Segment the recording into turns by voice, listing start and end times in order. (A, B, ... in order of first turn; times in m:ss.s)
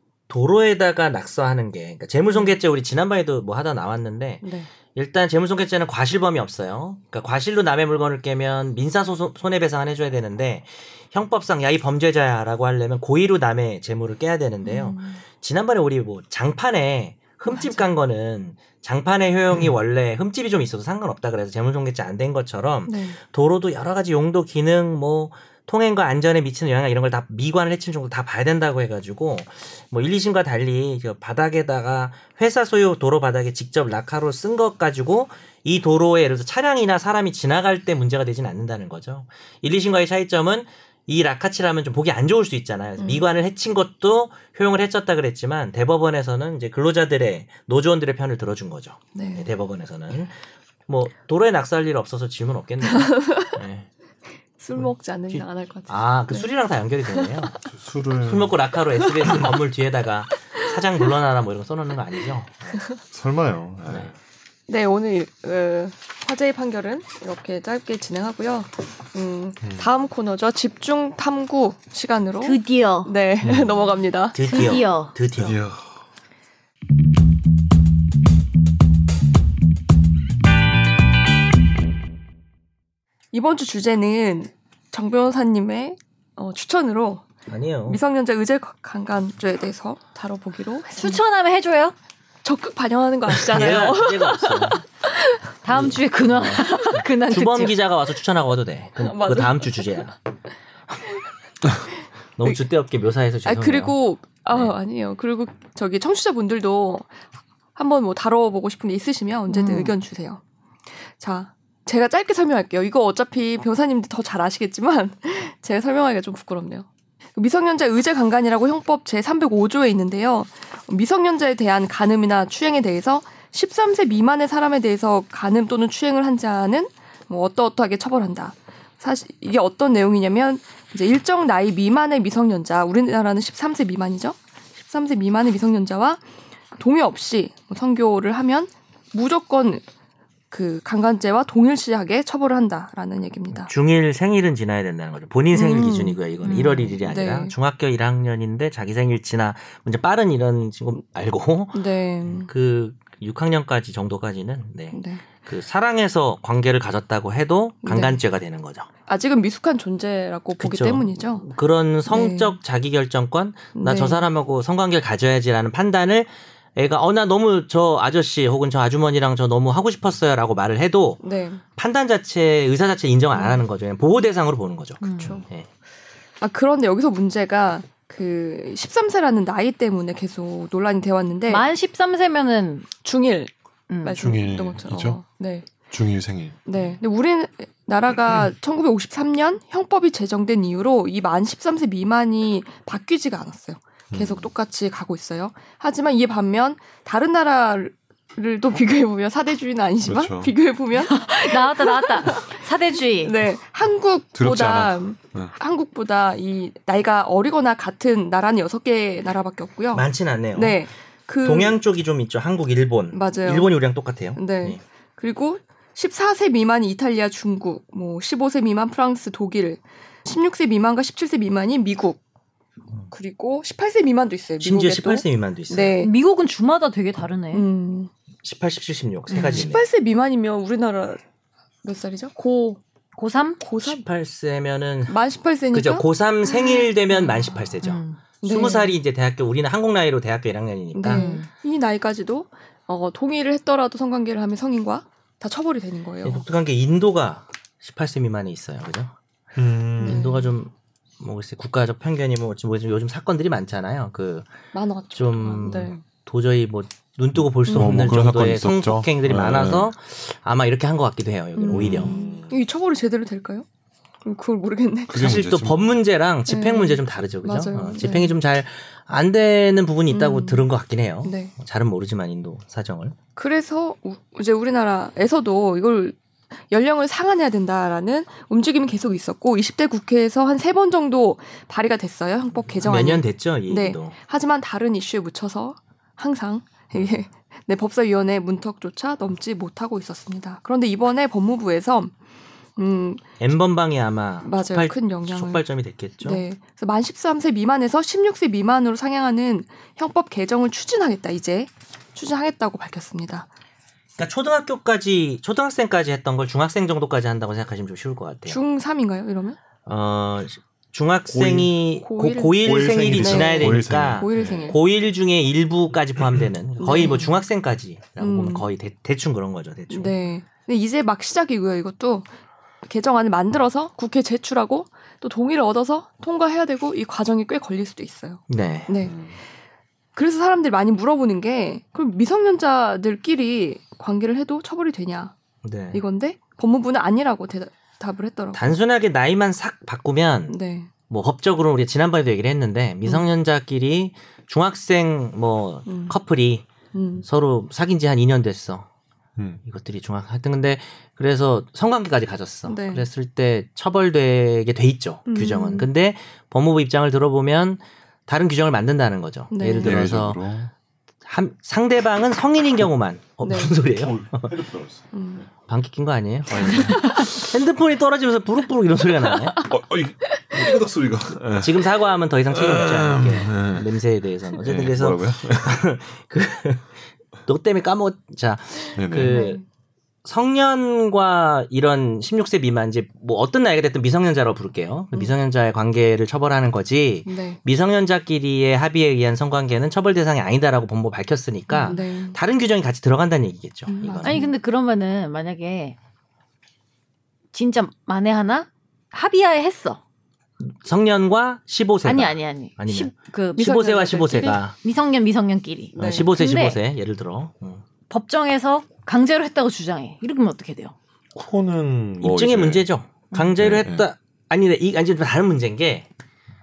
0:00.3-0:50.4 A
0:04.4-0:04.7 B
0:14.6-0:15.2 B
0:17.5-0:17.9 B
0:22.9-0:23.2 B
0:43.0-0:43.2 B
0:49.1-0:49.5 B
0:50.9-0:53.9 A
0:52.8-0:53.6 B
0:54.6-0:56.5 B
0:54.8-0:57.6 A
0:57.7-0:58.6 C
0:58.2-1:02.8 A
0:59.2-0:59.5 B
1:03.1-1:04.1 C
1:04.7-1:14.8 B
1:09.6-1:09.9 C
1:12.4-1:13.1 D
1:13.4-1:13.8 C
1:14.3-1:15.6 A
1:14.4-1:15.1 D
1:15.4-1:15.9 C
1:23.3-1:27.3 B
1:27.5-1:28.0 A
1:27.9-1:31.2 B
1:31.0-1:31.9 D
1:32.4-1:35.4 B
1:33.4-1:34.8 A
1:35.6-1:37.8 D
1:35.7-1:40.2 A
1:36.6-1:37.0 B
1:39.0-1:40.1 B
1:42.4-1:43.9 A
1:43.4-1:47.2 B
1:47.7-1:50.4 B
1:49.5-1:49.9 D
1:51.2-2:16.2 B
2:16.7-2:19.8 B
2:20.5-2:23.7 B
2:23.6-2:38.9 A
2:25.5-2:26.2 B
2:26.4-2:27.0 D
2:27.0-2:27.5 B
2:31.7-2:32.5 B
2:34.9-2:35.2 B
2:37.8-2:38.2 B
2:39.1-2:41.5 B
2:40.6-2:51.2 A
2:42.1-2:42.6 B
2:43.7-2:44.2 B
2:51.2-2:51.6 B
2:51.8-2:55.7 A
2:53.3-2:53.6 B
2:55.0-2:55.4 D
2:55.2-2:55.4 B
2:56.4-3:01.6 B
3:01.5-3:02.9 D
3:03.0-3:03.5 B
3:03.9-3:04.4 D
3:04.0-3:05.7 B
3:04.2-3:05.2 C
3:05.9-3:06.6 C
3:06.6-3:22.6 B
3:14.1-3:14.5 C
3:20.0-3:20.5 C
3:21.0-3:23.3 D
3:23.2-3:31.8 B
3:24.3-3:25.5 C
3:29.9-3:30.8 A
3:31.4-3:34.8 A
3:33.1-3:33.7 B
3:34.4-3:42.2 B
3:43.1-3:46.1 B
3:44.6-3:46.0 A
3:46.0-3:47.7 D
3:47.5-3:48.1 B
3:48.4-3:49.9 A
3:49.3-3:49.7 D
3:49.4-3:51.2 B
3:51.8-3:52.8 B
3:53.2-3:53.6 D
3:53.6-3:54.0 B
3:53.8-3:55.2 A
3:55.1-3:57.3 B
3:55.7-4:01.3 A
3:57.8-3:58.2 D
3:58.4-3:58.9 B
4:00.9-4:06.4 B
4:01.1-4:01.5 D
4:06.2-4:09.1 A
4:09.6-4:10.3 C
4:10.0-4:10.5 B
4:10.0-4:14.5 A
4:14.7-4:16.0 B
4:15.1-4:22.1 A
4:17.3-4:19.9 C
4:17.7-4:18.0 B
4:21.6-4:23.7 B
4:21.7-4:22.6 C
4:24.2-4:25.3 B
4:25.1-4:25.9 C
4:25.1-4:33.2 A
4:26.5-4:28.3 B
4:30.1-4:30.6 B
4:31.2-4:31.5 B
4:33.4-4:36.2 B
4:36.7-4:52.1 B
4:42.8-4:44.2 A
4:52.8-4:53.2 B
4:53.4-4:56.4 A
4:54.4-4:55.6 B
4:56.2-5:03.5 B
5:04.2-5:08.6 A
5:08.5-5:09.6 B
5:09.8-5:20.1 A
5:11.3-5:11.7 C
5:12.0-5:14.8 B
5:12.6-5:14.8 C
5:16.8-5:17.3 B
5:18.2-5:18.7 B
5:19.9-5:22.3 B
5:22.8-5:29.3 B
5:28.5-5:28.9 A
5:29.0-5:29.3 C
5:30.1-5:35.3 B
5:35.6-5:36.0 A
5:35.9-5:38.7 B
5:38.5-5:40.6 A
5:40.5-5:40.9 B
5:41.1-5:46.6 A
5:45.9-5:46.2 B
5:46.9-5:47.2 B
5:47.2-5:48.8 A
5:49.6-6:00.4 A
5:52.7-5:53.1 B
5:55.3-5:55.9 B
5:59.5-6:00.0 B
5:59.8-6:00.7 C
6:01.2-6:04.5 A
6:03.4-6:03.7 B
6:03.8-6:05.4 C
6:05.1-6:05.5 B
6:05.7-6:09.7 A
6:06.5-6:07.1 C
6:06.6-6:07.2 B
6:09.2-6:09.8 B
6:09.7-6:13.9 C
6:10.4-6:10.8 B
6:11.6-6:16.9 A
6:14.6-6:15.8 C
6:17.4-6:19.6 A
6:18.9-6:19.4 C
6:19.2-6:19.6 B
6:20.2-6:34.4 A
6:27.2-6:27.6 B
6:31.8-6:32.4 B
6:33.9-6:34.5 B
6:34.2-6:35.9 D
6:37.5-6:40.0 D
6:40.6-6:44.7 A
6:42.0-6:43.8 D
6:43.6-6:44.6 B
6:44.4-6:46.8 D
6:45.9-6:46.2 B
6:46.0-6:47.8 A
6:48.1-6:50.9 D
6:51.3-6:52.8 C
6:52.2-6:56.1 A
6:53.6-6:54.0 C